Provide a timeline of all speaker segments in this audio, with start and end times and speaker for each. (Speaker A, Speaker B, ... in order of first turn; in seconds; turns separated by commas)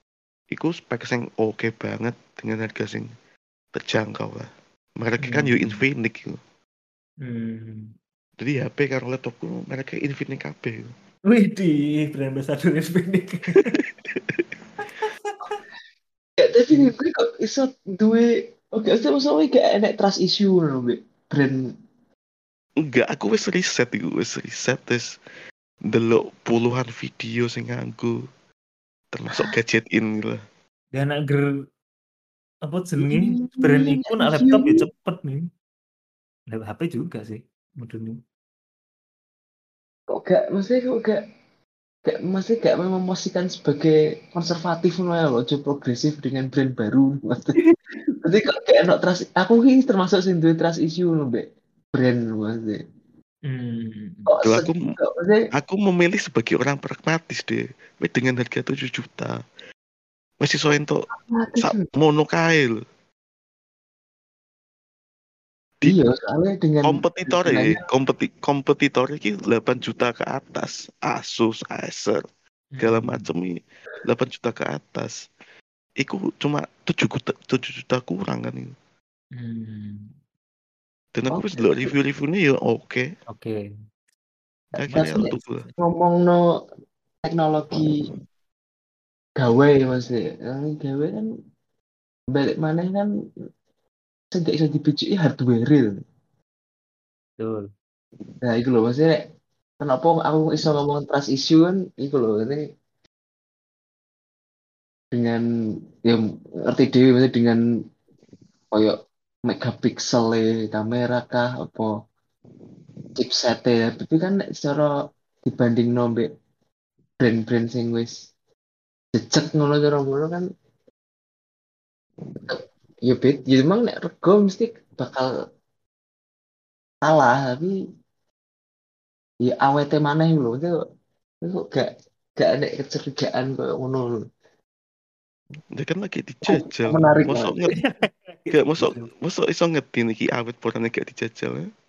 Speaker A: 0.5-3.1, Speaker A: 3.7-6.4, Speaker B: 5.2-5.8, Speaker B: 7.2-7.9, Speaker A: 8.4-10.9, Speaker B: 11.3-13.8, Speaker A: 13.6-14.4, Speaker C: 16.4-21.6, Speaker A: 22.8-25.1, Speaker A: 25.9-28.3, Speaker A: 29.1-30.4, Speaker B: 30.9-31.5, Speaker B: 32.6-35.5, Speaker C: 33.0-34.8, Speaker B: 36.5-38.2, Speaker C: 40.1-41.2, Speaker C: 42.0-47.6, Speaker C: 48.2-52.8, Speaker B: 53.5-54.3, Speaker C: 54.3-55.4, Speaker A: 54.4-55.0, Speaker A: 55.5-59.4, Speaker A: 60.4-61.1, Speaker C: 61.1-61.9, Speaker A: 61.6-62.8, Speaker C: 65.8-67.8, Speaker A: 66.8-72.2, Speaker B: 72.8-73.3, Speaker A: 72.8-75.3, Speaker A: 76.0-78.8, Speaker B: 79.3-80.1, Speaker A: 81.1-83.2, Speaker C: 81.3-81.9, Speaker B: 83.3-83.6, Speaker A: 84.8-85.7, Speaker C: 84.8-86.4, Speaker B: 84.9-85.3, Speaker C: 87.2-88.1, Speaker C: 89.4-91.3, Speaker C: 92.3-93.1, Speaker C: 94.3-96.0, Speaker B: 97.4-97.7, Speaker C: 98.4-99.2, Speaker C: 99.8-102.6, Speaker C: 105.1-105.4, Speaker C: 106.0-107.6, Speaker C: 108.7-109.0, Speaker C: 109.5-111.9, Speaker C: 113.2-114.9, Speaker C: 115.5-116.3, Speaker C: 117.2-118.1, Speaker C: 119.2-120.5, Speaker C: 122.4-125.3, Speaker C: 127.0-127.8, Speaker C: 129.4-130.7, Speaker C: 131.4-134.2, Speaker A: 135.7-137.8, Speaker C: 136.5-137.7, Speaker B: 137.8-139.1, Speaker A: 138.5-141.7